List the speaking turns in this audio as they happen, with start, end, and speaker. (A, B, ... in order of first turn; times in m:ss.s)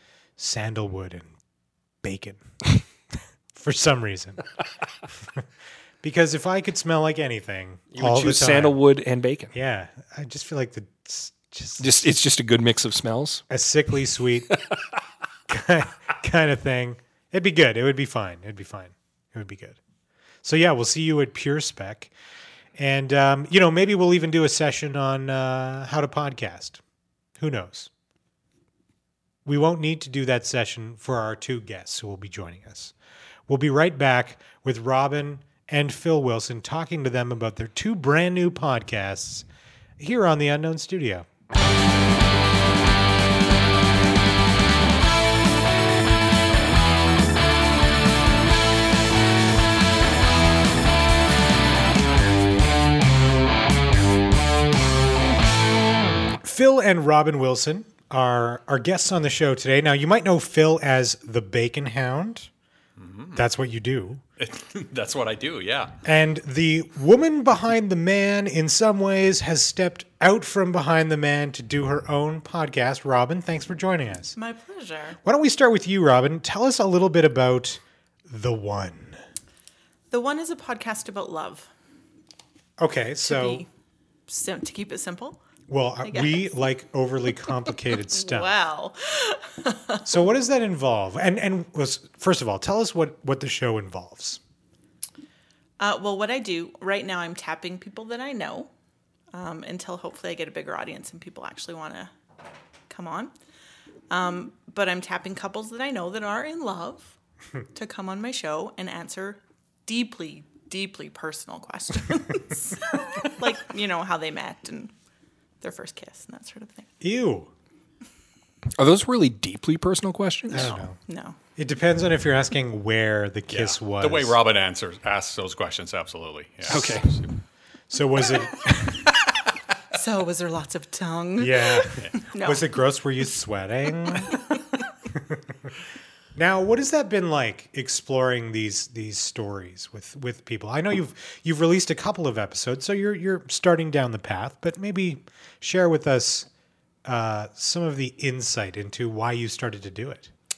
0:00.4-0:01.3 A
0:02.0-0:02.4 A
0:03.5-0:04.4 A
0:06.0-0:08.8 A
0:07.9-0:09.5 B
0:09.5-0:12.1 A
0:11.8-0:13.4 B
0:13.5-0:14.5 A
0:15.5-0:19.8 A
0:20.4-0:22.1 A
0:22.8-0:26.8 A
0:27.4-0:27.9 A
0:29.4-0:32.9 A
0:33.5-0:39.4 A
0:40.0-0:41.3 A
0:56.4-1:02.5 A
1:03.0-1:03.4 C
1:03.3-1:04.2 A
1:04.4-1:06.0 C
1:06.0-1:14.3 A
1:14.4-1:15.2 D
1:15.2-1:19.2 A
1:20.1-1:21.7 D
1:22.8-1:23.6 A
1:23.2-1:23.7 D
1:24.3-1:25.4 D
1:25.7-1:28.5 A
1:26.0-1:26.5 D
1:27.8-1:30.0 D
1:30.0-1:34.4 A
1:35.8-1:38.7 D
1:39.3-1:42.1 D
1:42.9-1:43.3 D
1:44.1-1:47.1 D
1:47.7-1:54.9 D
1:55.6-1:56.9 D
1:57.0-1:57.5 A
1:58.8-2:00.7 B
2:00.5-2:01.0 A
2:00.5-2:01.4 D
2:01.6-2:04.4 A
2:03.5-2:07.3 C
2:06.7-2:07.2 B
2:07.9-2:09.1 A
2:09.9-2:12.6 D
2:11.4-2:14.4 A
2:15.2-2:15.4 A
2:16.3-2:26.5 A
2:27.0-2:30.3 A